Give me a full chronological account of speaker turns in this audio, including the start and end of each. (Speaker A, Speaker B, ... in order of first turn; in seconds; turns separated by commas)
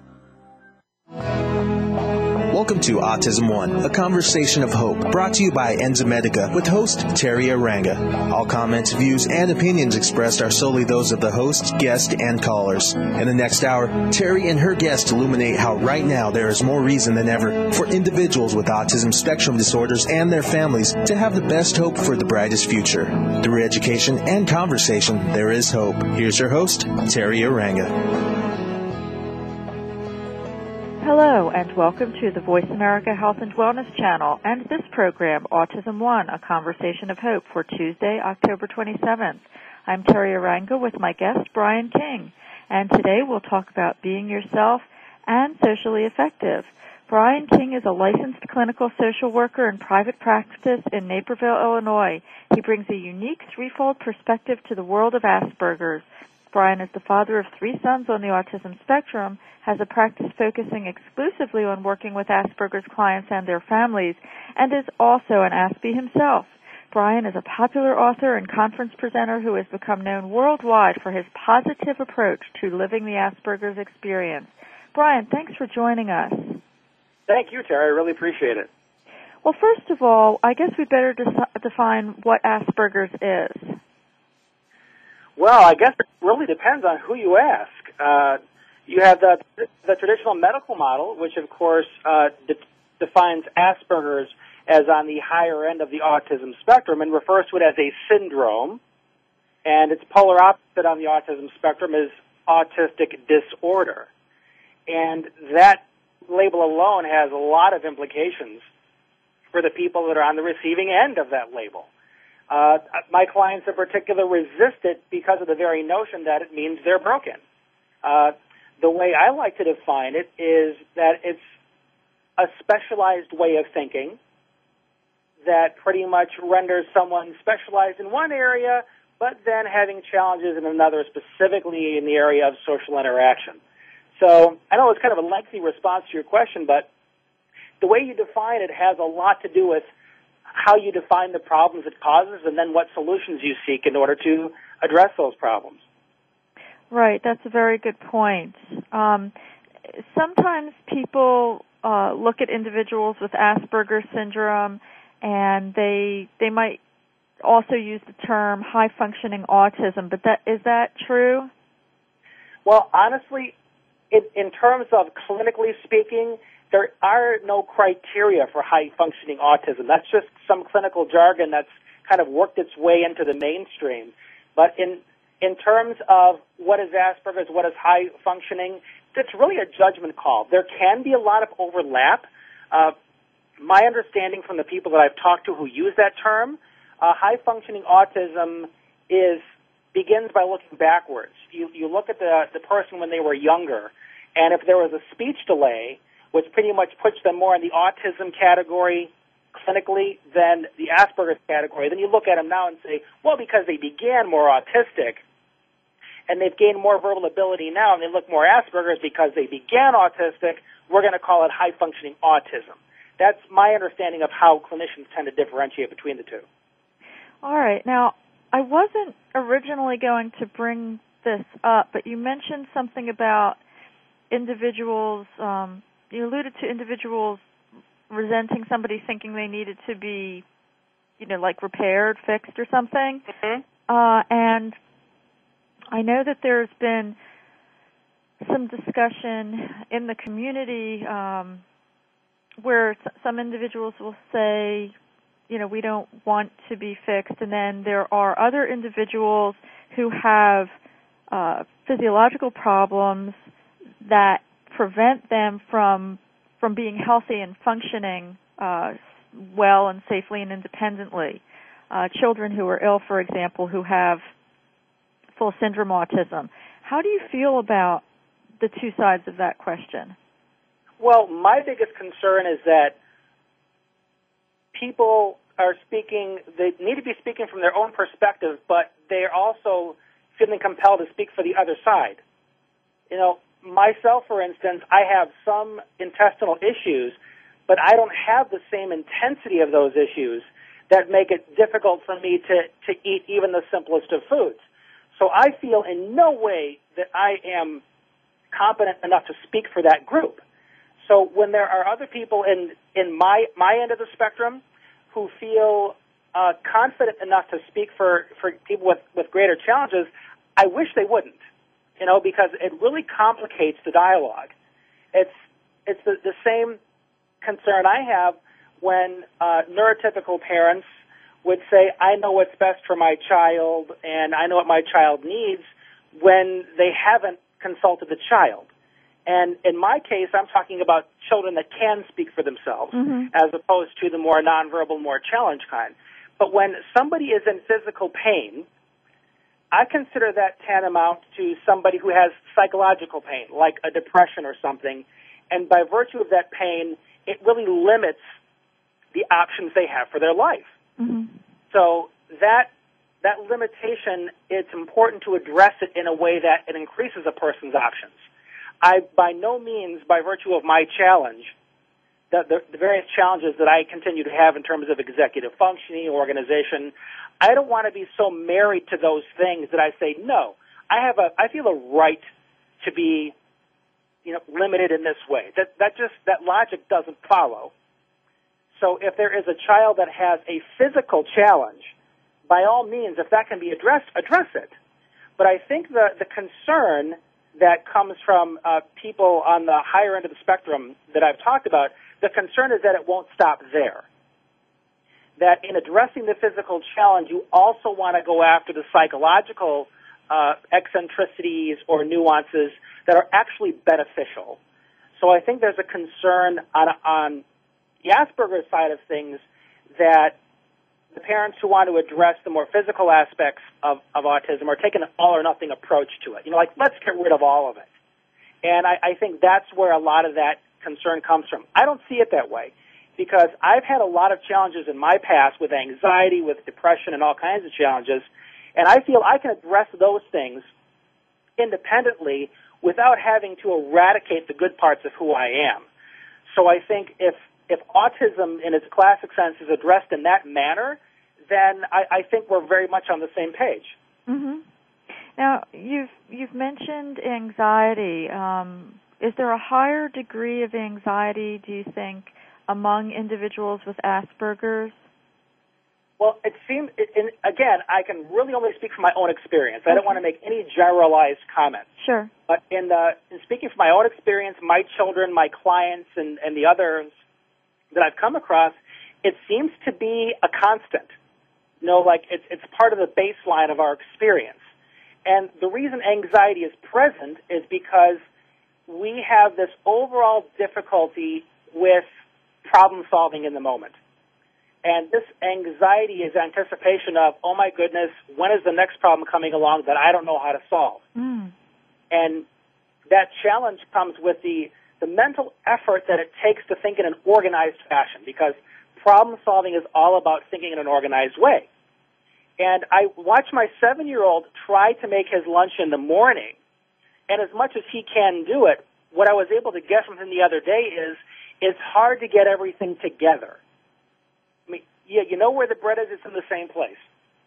Speaker A: 2.5-28.2, Speaker B: 31.0-76.6, Speaker C: 77.3-78.7, Speaker B: 79.4-83.8, Speaker C: 85.4-98.8, Speaker C: 99.6-104.1, Speaker C: 104.9-108.6, Speaker C: 109.5-111.9, Speaker C: 112.5-117.4, Speaker C: 118.0-121.4, Speaker C: 122.4-124.2, Speaker C: 125.4-133.6, Speaker C: 134.2-136.9, Speaker C: 137.8-139.9, Speaker C: 140.5-145.8, Speaker B: 146.9-149.3, Speaker B: 149.9-156.8, Speaker B: 157.4-161.5, Speaker C: 162.7-163.5, Speaker C: 164.1-182.9, Speaker C: 183.6-189.4, Speaker C: 189.9-205.2, Speaker C: 206.3-216.4, Speaker B: 217.4-223.6, Speaker B: 224.3-227.4, Speaker B: 228.1-230.4, Speaker B: 231.2-233.2, Speaker C: 233.3-233.6, Speaker B: 233.9-234.8, Speaker B: 235.9-237.2, Speaker B: 238.4-241.6, Speaker B: 242.6-244.9, Speaker B: 245.5-250.7, Speaker B: 251.3-253.5, Speaker B: 254.0-264.3, Speaker B: 265.4-268.0, Speaker B: 268.6-270.1, Speaker C: 271.0-272.9, Speaker C: 274.7-282.2, Speaker C: 283.1-287.2, Speaker C: 287.7-294.6, Speaker C: 295.2-297.8, Speaker C: 298.5-300.4, Speaker C: 301.0-311.4, Speaker C: 312.0-314.5, Speaker C: 315.9-316.8, Speaker C: 317.4-320.8, Speaker C: 321.4-328.7, Speaker C: 329.2-338.6, Speaker B: 332.9-333.3, Speaker C: 339.7-348.2, Speaker C: 349.1-350.7, Speaker B: 351.0-351.4, Speaker C: 351.7-352.7, Speaker C: 353.2-358.2, Speaker C: 358.8-361.5, Speaker C: 362.3-372.3, Speaker C: 372.8-373.3, Speaker C: 374.2-377.7, Speaker C: 378.8-381.9, Speaker C: 382.5-384.7, Speaker C: 385.4-394.0, Speaker C: 395.4-404.6, Speaker C: 405.2-407.4, Speaker C: 408.0-409.4, Speaker C: 410.0-410.4, Speaker C: 411.1-417.8, Speaker C: 418.6-430.6, Speaker C: 431.6-435.8, Speaker C: 436.5-441.0, Speaker C: 441.5-443.9, Speaker B: 444.3-444.6, Speaker B: 445.4-454.9, Speaker C: 456.2-461.9, Speaker B: 459.9-460.2, Speaker B: 462.0-462.3, Speaker C: 462.5-467.1, Speaker C: 467.9-471.1, Speaker C: 471.8-474.6, Speaker C: 475.2-478.2, Speaker C: 478.9-482.1, Speaker C: 482.6-483.9, Speaker C: 484.8-491.0, Speaker B: 491.1-491.5, Speaker C: 492.1-492.4, Speaker C: 493.1-501.7, Speaker C: 502.6-506.6, Speaker C: 507.3-513.6, Speaker C: 514.7-517.0